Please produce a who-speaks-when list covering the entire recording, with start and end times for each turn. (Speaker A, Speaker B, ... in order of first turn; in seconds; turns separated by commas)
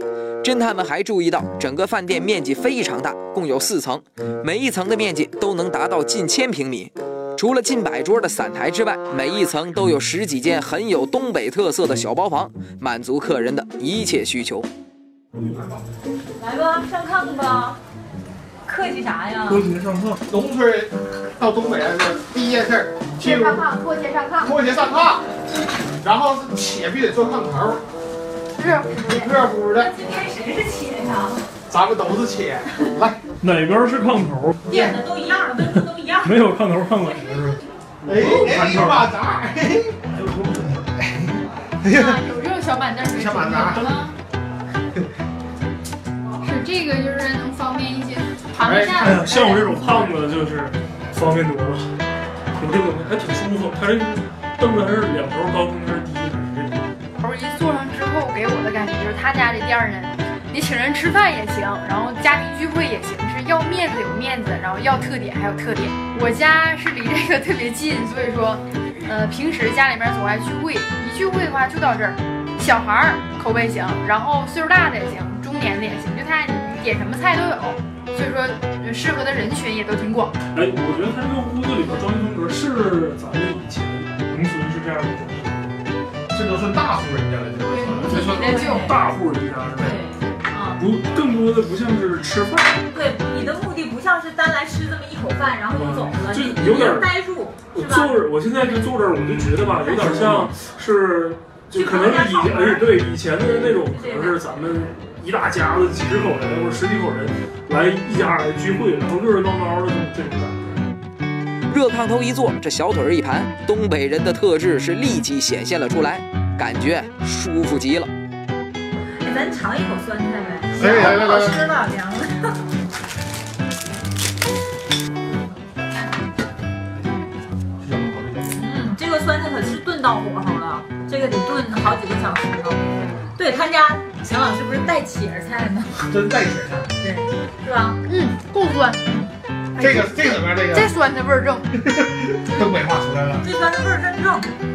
Speaker A: 0.4-14.7, Speaker B: 15.4-15.8, Speaker C: 16.4-17.8, Speaker C: 18.6-19.7, Speaker D: 19.5-20.2, Speaker B: 20.2-23.7, Speaker E: 23.2-24.5, Speaker B: 24.4-25.3, Speaker B: 26.0-27.8, Speaker E: 28.6-29.4, Speaker B: 29.0-29.9, Speaker C: 29.7-31.5, Speaker B: 31.7-33.2, Speaker D: 33.4-34.7, Speaker C: 34.7-36.5, Speaker D: 35.6-39.1, Speaker B: 38.0-40.0, Speaker D: 40.1-40.7, Speaker B: 40.6-42.2, Speaker E: 41.9-44.1, Speaker B: 43.1-44.0, Speaker E: 46.4-50.1, Speaker B: 48.6-49.4, Speaker D: 49.0-51.9, Speaker D: 52.6-56.9, Speaker E: 57.2-80.3, Speaker D: 80.5-85.8, Speaker B: 86.3-88.2, Speaker E: 87.6-88.9, Speaker C: 88.1-89.0, Speaker D: 88.1-90.0, Speaker C: 89.8-90.8, Speaker D: 90.8-92.8, Speaker C: 92.9-98.3, Speaker D: 95.7-97.1, Speaker D: 97.7-110.8, Speaker C: 99.8-100.5, Speaker C: 101.7-104.4, Speaker A: 111.7-118.1, Speaker C: 119.2-122.5, Speaker B: 120.7-121.7, Speaker B: 127.8-128.6, Speaker C: 128.5-136.0, Speaker B: 136.0-136.9, Speaker C: 137.0-138.0, Speaker E: 138.1-139.0, Speaker C: 139.1-139.3, Speaker E: 139.8-141.7, Speaker B: 139.8-140.9, Speaker B: 141.7-143.4, Speaker C: 143.4-144.6